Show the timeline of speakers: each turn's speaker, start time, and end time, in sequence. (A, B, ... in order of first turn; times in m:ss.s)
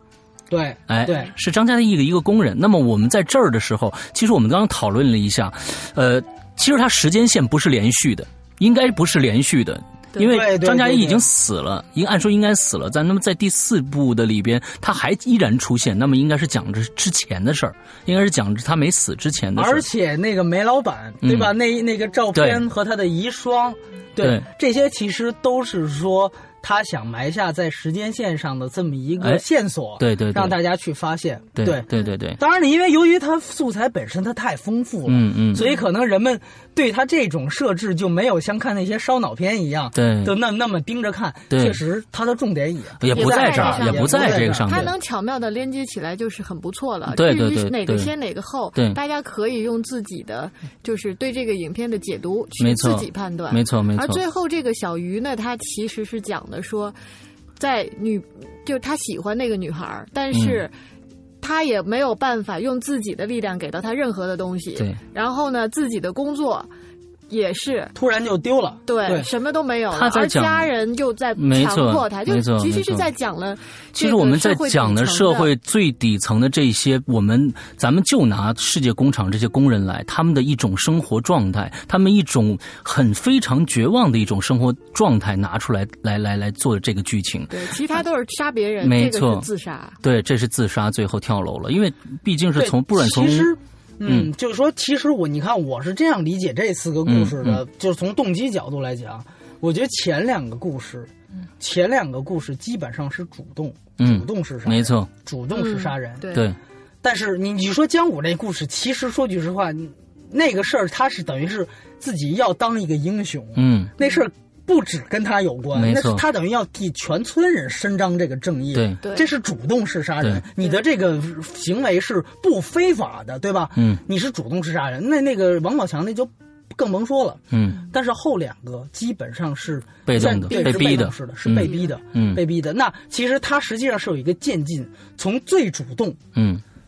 0:00.5-0:01.3 A
0:00.9-0:19.8 B
0:10.2-0:11.2 A
0:19.6-0:44.9 A
0:21.2-0:21.5 B
0:22.3-0:22.6 B
0:24.2-0:24.4 B
0:30.0-0:30.6 B
0:31.6-0:32.4 B
0:35.1-0:35.7 B
0:39.9-0:40.3 B
0:41.5-0:41.8 B
0:43.0-0:44.9 B
0:43.1-0:57.0 C
0:47.1-0:48.1 B
0:52.6-0:54.2 B
0:57.6-1:00.7 C
1:00.3-1:00.6 B
1:01.4-1:06.7 C
1:07.3-1:07.9 C
1:07.9-1:09.3 A
1:08.9-1:15.5 C
1:09.9-1:10.7 B
1:11.4-1:13.1 B
1:13.9-1:27.6 B
1:27.5-1:30.0 C
1:28.8-1:29.5 B
1:30.0-1:33.5 B
1:32.6-1:46.3 A
1:37.0-1:37.6 B
1:44.0-1:45.1 B
1:45.5-1:46.5 C
1:47.0-2:16.2 A
1:53.6-1:53.9 B
1:55.7-1:56.2 B
1:59.0-1:59.3 C
2:03.8-2:04.0 B
2:07.5-2:07.8 B
2:10.1-2:12.4 B
2:10.3-2:11.0 C
2:11.6-2:11.9 C
2:16.3-2:16.6 B